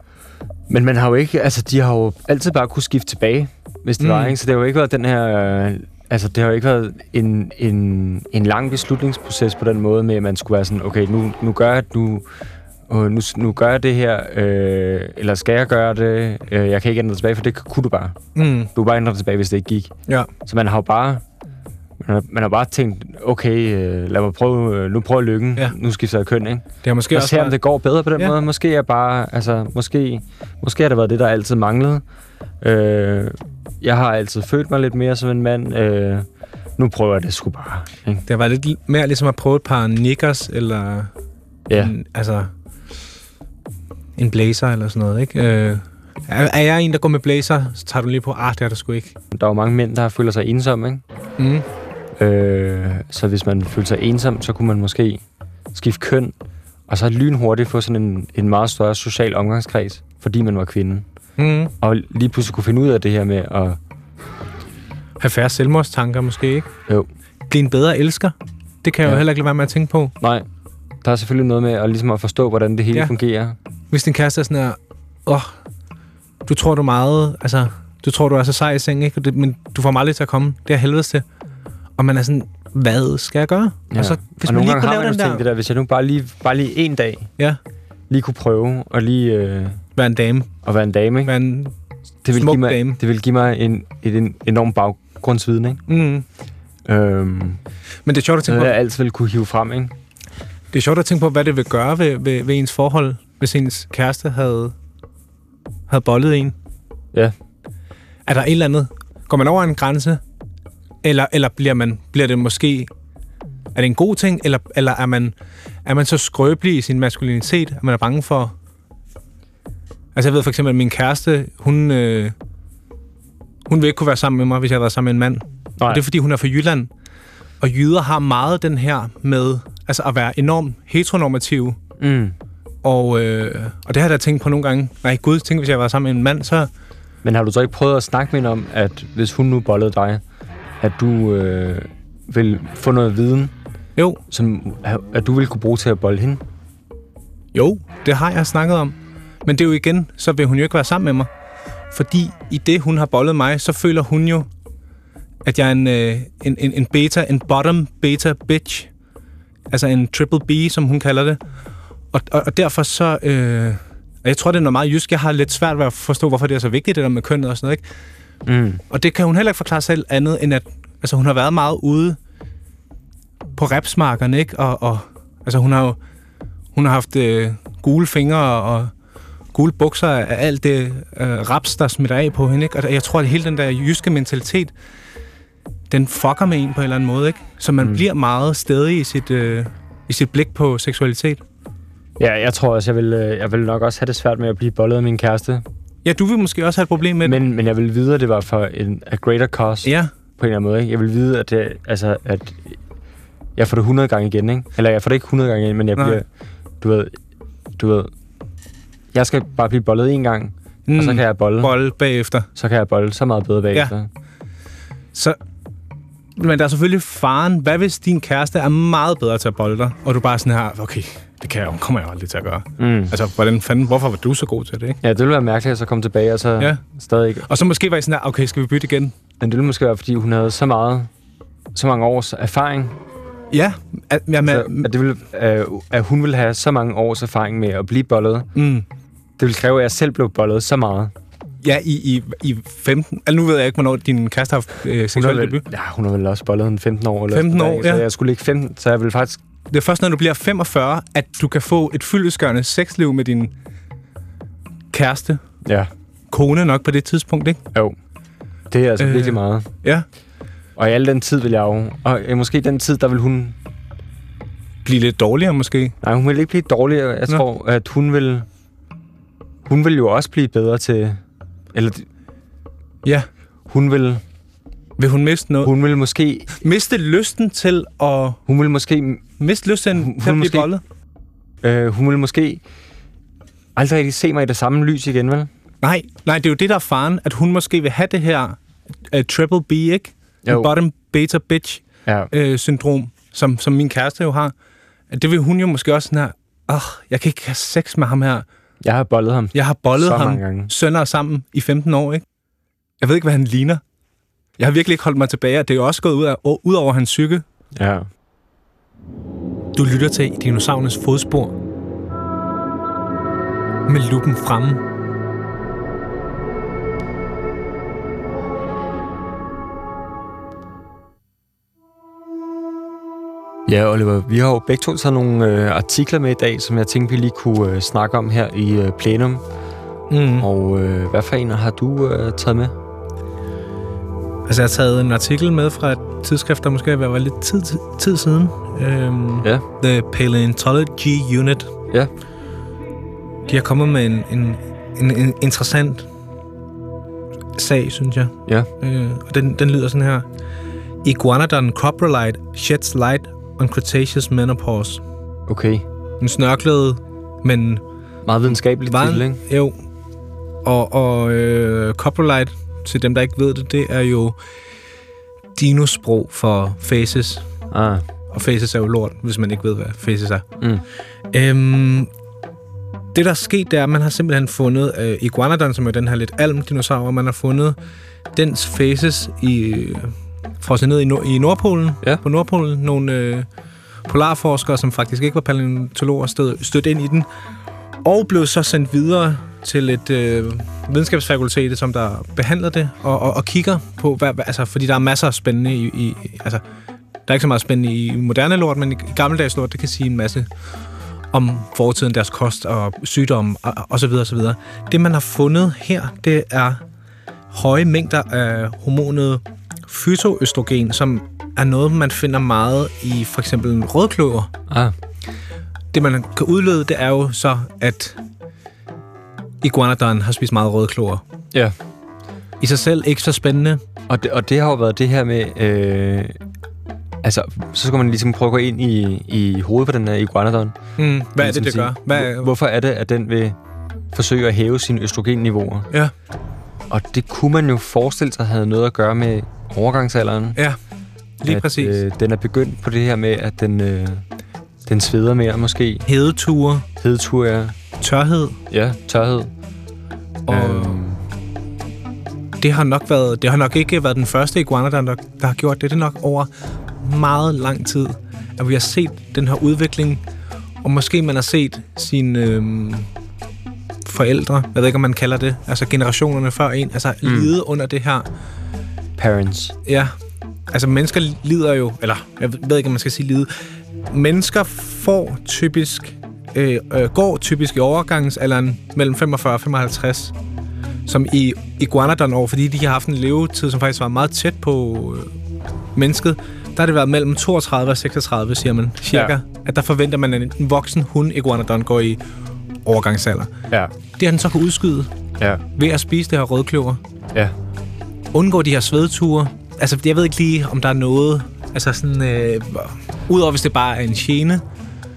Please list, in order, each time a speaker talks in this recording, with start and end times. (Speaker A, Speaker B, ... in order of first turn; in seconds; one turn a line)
Speaker A: 0.7-12.3
Speaker B: 4.0-4.4
Speaker A: 12.9-18.2
Speaker B: 18.4-18.7
Speaker A: 18.7-19.9
Speaker A: 20.5-21.2
Speaker A: 22.0-32.0
Speaker B: 26.8-27.6
Speaker A: 32.6-38.2
Speaker B: 38.3-41.1
Speaker A: 41.7-41.9
Speaker B: 41.7-42.5
Speaker B: 44.2-49.1
Speaker A: 49.3-51.0
Speaker B: 51.4-51.7
Speaker A: 52.2-55.2
Speaker A: 55.7-56.4
Speaker A: 56.9-61.1
Speaker B: 61.4-61.7
Speaker A: 61.8-63.8
Speaker B: 65.2-66.7
Speaker B: 67.5-70.1
Speaker A: 70.2-70.5
Speaker A: 71.0-73.6
Speaker B: 73.9-75.6
Speaker B: 76.5-81.2
Speaker B: 82.0-85.4
Speaker A: 83.9-87.3
Speaker A: 88.1-89.8
Speaker B: 90.0-90.5
Speaker A: 90.6-91.3
Speaker B: 91.2-91.7
Speaker A: 92.2-95.8
Speaker B: 92.3-93.0
Speaker B: 95.9-96.2
Speaker A: 96.9-97.6
Speaker B: 98.1-98.8
Speaker A: 98.5-99.9
Speaker B: 100.7-104.7
Speaker B: 105.9-106.6
Speaker B: 108.3-110.2
Speaker B: 111.0-112.9
Speaker B: 113.8-118.5
Speaker B: 120.2-122.3
Speaker B: 123.7-126.9
Speaker A: 125.8-126.0
Speaker B: 127.6-131.8
Speaker A: 132.0-132.4
Speaker B: 132.8-136.7
Speaker A: 137.2-140.2
Speaker A: 140.8-143.5
Speaker B: 144.0-144.2
Speaker A: 144.3-146.4
Speaker B: 147.5-151.3
Speaker B: 151.9-154.5
Speaker B: 155.4-158.9
Speaker B: 159.7-161.4
Speaker B: 162.1-167.8
Speaker A: 168.5-168.8
Speaker B: 168.9-172.2
Speaker B: 173.6-176.0
Speaker B: 176.7-178.9
Speaker B: 179.5-184.7
Speaker B: 185.9-191.4
Speaker A: 187.8-188.1
Speaker A: 192.2-195.7
Speaker B: 196.1-197.4
Speaker A: 197.2-202.8
Speaker B: 199.8-200.1
Speaker A: 203.6-206.2
Speaker B: 205.9-206.2
Speaker A: 206.8-207.2
Speaker A: 207.8-208.1
Speaker A: 209.1-211.8
Speaker B: 210.9-212.5
Speaker A: 212.6-214.1
Speaker B: 216.4-225.0
Speaker A: 222.8-223.2
Speaker A: 225.0-227.5
Speaker B: 227.4-229.1
Speaker A: 229.4-231.1
Speaker A: 231.7-233.0
Speaker B: 233.5-234.9
Speaker A: 234.4-238.5
Speaker B: 238.6-238.9
Speaker A: 239.4-241.1
Speaker B: 241.6-245.7
Speaker A: 245.1-249.4
Speaker B: 247.3-248.1
Speaker B: 249.7-253.5
Speaker B: 254.9-255.4
Speaker A: 255.7-255.9
Speaker B: 256.3-257.6
Speaker A: 258.7-259.7
Speaker B: 259.0-260.1
Speaker A: 260.8-263.6
Speaker B: 264.9-266.0
Speaker A: 266.0-268.5
Speaker A: 269.6-271.2
Speaker A: 271.7-272.1
Speaker A: 273.7-274.2
Speaker B: 275.0-275.7
Speaker A: 275.6-276.5
Speaker B: 276.5-278.4
Speaker A: 278.5-279.2
Speaker B: 279.4-280.8
Speaker A: 279.9-280.7
Speaker A: 281.6-282.6
Speaker A: 283.8-285.5
Speaker B: 285.8-288.6
Speaker B: 289.1-294.5
Speaker A: 290.4-290.7
Speaker B: 295.1-298.5
Speaker A: 298.8-300.7
Speaker B: 299.5-302.2
Speaker B: 303.0-303.8
Speaker B: 304.6-307.4
Speaker A: 307.8-308.1
Speaker B: 309.8-311.6
Speaker B: 313.9-314.8
Speaker A: 323.7-329.4
Speaker B: 330.1-330.5
Speaker A: 330.4-332.7
Speaker B: 334.5-341.7
Speaker B: 343.5-346.1
Speaker B: 347.6-350.3
Speaker B: 351.0-355.0
Speaker A: 355.5-355.9
Speaker B: 356.2-357.8
Speaker A: 358.2-359.4
Speaker B: 358.8-359.8
Speaker B: 360.6-364.4
Speaker B: 365.6-367.4
Speaker A: 367.7-368.1
Speaker B: 368.3-370.4
Speaker B: 371.3-372.1
Speaker B: 373.1-377.8
Speaker B: 378.3-383.5
Speaker B: 384.1-387.3
Speaker B: 388.0-396.6
Speaker B: 397.3-400.5
Speaker B: 401.3-406.8
Speaker B: 407.5-414.5
Speaker A: 414.7-414.9
Speaker B: 415.9-418.2
Speaker B: 419.6-421.2
Speaker B: 422.6-423.8
Speaker A: 424.1-426.4
Speaker A: 427.2-430.8
Speaker B: 431.0-432.5
Speaker A: 431.4-433.6
Speaker A: 434.1-435.9
Speaker A: 436.9-440.6
Speaker B: 441.4-442.0
Speaker A: 441.5-444.2
Speaker A: 444.9-446.1
Speaker B: 446.1-446.9
Speaker A: 447.0-447.8
Speaker B: 448.0-448.6
Speaker A: 448.7-449.5
Speaker B: 450.5-451.0
Speaker A: 450.5-451.2
Speaker B: 452.6-460.2
Speaker B: 460.8-463.1
Speaker B: 464.1-468.3
Speaker A: 467.2-467.5
Speaker A: 469.2-469.8
Speaker B: 469.9-470.1
Speaker B: 470.7-473.5
Speaker B: 474.1-480.3
Speaker B: 481.1-485.3
Speaker B: 486.0-492.2
Speaker A: 489.1-489.4
Speaker B: 492.9-493.5
Speaker B: 494.2-495.1
Speaker B: 495.8-497.0
Speaker B: 498.3-504.6